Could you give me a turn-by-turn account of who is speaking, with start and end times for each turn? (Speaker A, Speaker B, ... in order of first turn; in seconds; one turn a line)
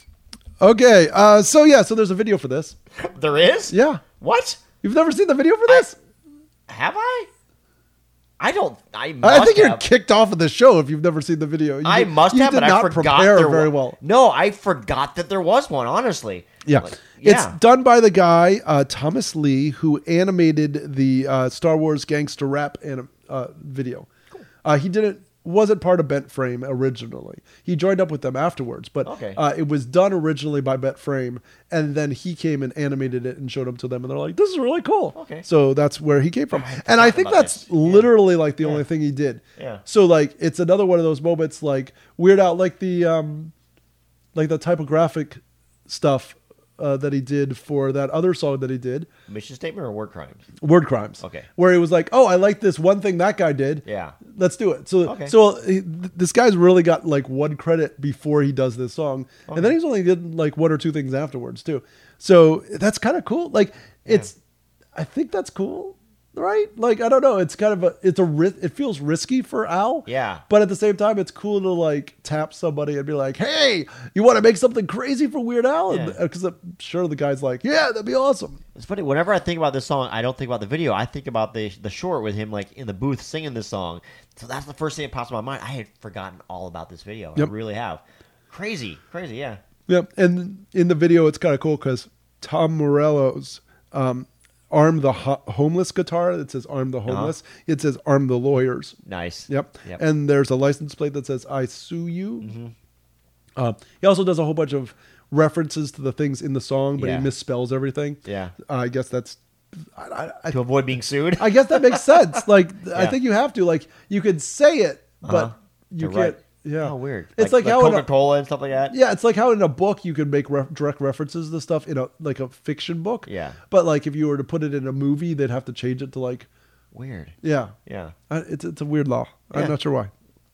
Speaker A: 0.6-2.8
Speaker B: 3.0-4.6
Speaker A: 3.7-4.0
Speaker A: 4.8-6.0
Speaker B: 6.7-7.3
Speaker B: 8.4-9.8
Speaker A: 9.2-14.0
Speaker B: 11.8-17.6
Speaker A: 16.6-24.1
Speaker A: 24.6-43.5
Speaker B: 29.0-29.4
Speaker B: 35.1-35.5
Speaker B: 36.5-38.8
Speaker B: 39.6-39.8
Speaker A: 44.3-49.1
Speaker B: 49.3-50.4
Speaker A: 50.6-64.3
Speaker B: 51.2-51.5
Speaker B: 53.8-54.2
Speaker B: 55.0-55.3
Speaker B: 59.5-59.8
Speaker A: 65.0-78.6
Speaker B: 70.0-70.4
Speaker B: 75.9-76.2
Speaker B: 78.7-89.6
Speaker A: 89.9-98.9
Speaker B: 97.1-97.3
Speaker B: 99.0-100.0
Speaker A: 99.5-102.5
Speaker B: 102.4-102.7
Speaker A: 103.6-110.6
Speaker B: 107.0-107.3
Speaker B: 108.2-108.5
Speaker B: 110.5-113.2
Speaker A: 111.4-118.1
Speaker B: 115.2-118.9
Speaker A: 118.9-126.5
Speaker B: 123.2-123.6
Speaker B: 126.9-127.3
Speaker A: 127.4-127.7
Speaker B: 127.8-128.1
Speaker A: 128.3-130.1